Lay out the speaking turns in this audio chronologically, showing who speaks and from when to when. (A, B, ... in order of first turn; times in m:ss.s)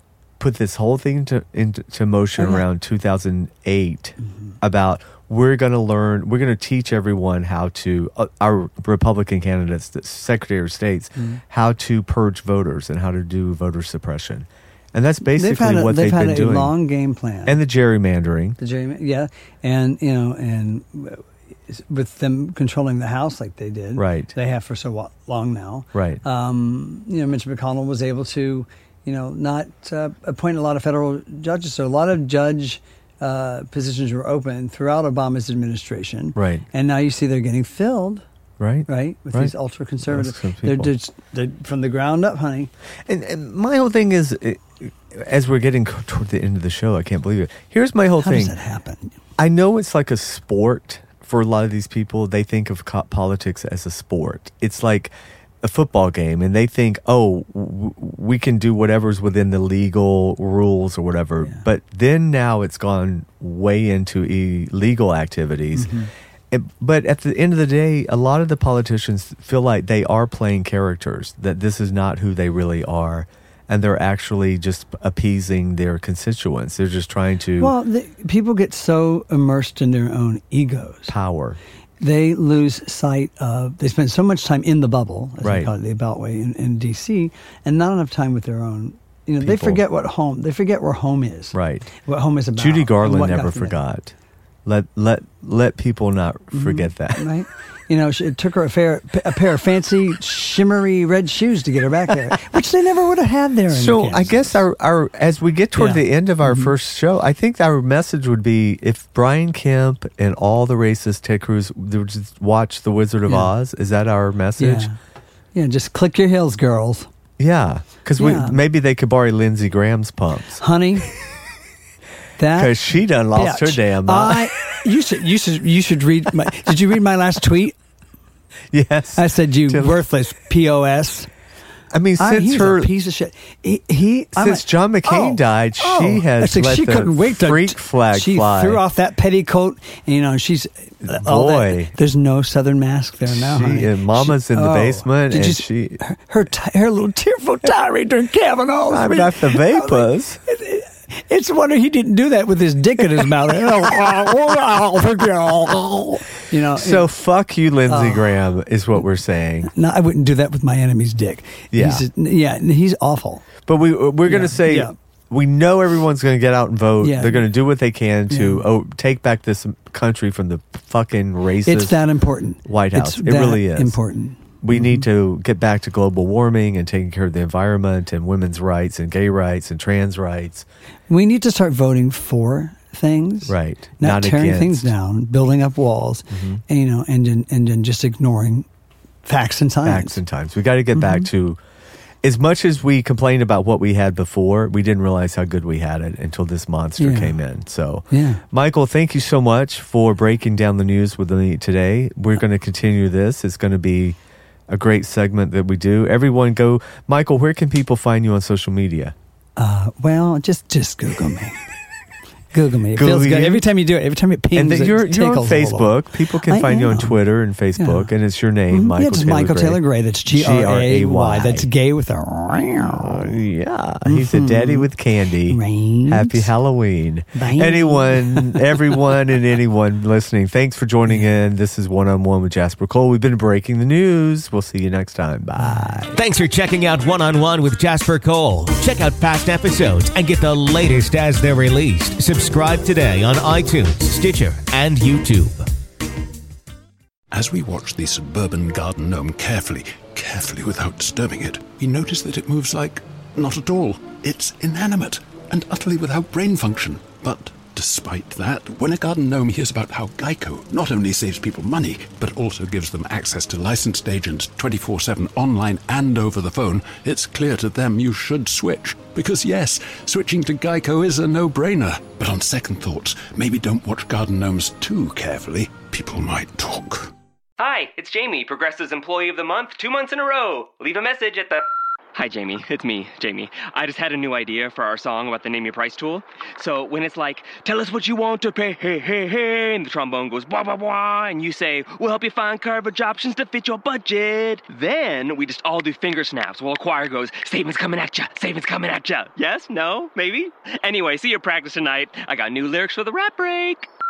0:00.4-0:16.8 A
0:02.4-0:02.6 B
0:04.2-0:04.5 B
0:15.3-0:17.6 B
0:17.5-0:18.6 A
0:18.6-0:38.2 B
0:24.0-0:24.3 A
0:25.9-0:26.2 A
0:36.4-0:36.7 A
0:38.6-0:39.5 A
0:38.9-0:42.7 B
0:40.1-0:40.9 A
0:43.1-0:48.6 A
0:48.2-0:49.2 B
0:49.4-1:06.0 A
1:05.8-1:06.1 B
1:06.5-1:17.8 A
1:17.6-1:21.1 B
1:21.1-1:21.6 A
1:22.0-1:33.8 B
1:25.4-1:25.7 A
1:29.4-1:29.8 A
1:31.5-1:31.9 A
1:32.6-1:34.1 A
1:34.6-1:37.2 A
1:36.5-1:44.6 B
1:43.7-1:54.9 A
1:45.8-1:46.7 B
1:53.3-1:53.5 B
1:54.6-1:55.0 B
1:55.5-1:57.1 B
1:57.4-2:00.6 A
1:58.2-1:58.6 B
2:00.6-2:01.1 B
2:02.4-2:02.8 B
2:02.5-2:04.5 A
2:03.3-2:07.8 B
2:08.7-2:10.0 A
2:09.2-2:11.3 B
2:11.9-2:12.9 A
2:12.2-2:37.1 B
2:14.4-2:18.8 A
2:21.1-2:22.0 A
2:23.3-2:26.0 A
2:28.9-2:30.4 A
2:35.5-2:36.2 A
2:36.7-2:39.7 A
2:37.9-2:38.3 B
2:39.6-2:43.5 B
2:41.7-2:42.1 A
2:43.7-2:52.0 A
2:44.3-2:44.9 B
2:47.0-2:47.5 B
2:48.3-2:48.6 B
2:51.6-2:55.0 B
2:52.6-2:54.0 A
2:54.6-3:00.7 A
3:01.1-3:08.7 B
3:03.5-3:04.9 A
3:06.3-3:06.6 A
3:09.2-3:10.2 B
3:09.8-3:11.6 A
3:11.0-3:11.3 B
3:12.2-3:24.2 A
3:17.0-3:17.4 B
3:18.1-3:18.4 B
3:24.7-3:29.2 A
3:29.6-3:31.6 B
3:32.5-3:37.2 B
3:33.0-3:33.7 A
3:34.5-3:41.7 A
3:37.8-3:38.1 B
3:38.7-3:43.4 B
3:43.0-3:56.2 A
3:44.0-3:44.9 B
3:45.5-3:46.5 B
3:47.4-3:48.7 B
3:55.6-3:56.0 B
3:56.1-4:05.7 C
4:07.3-4:37.1 D
4:37.6-5:03.9 E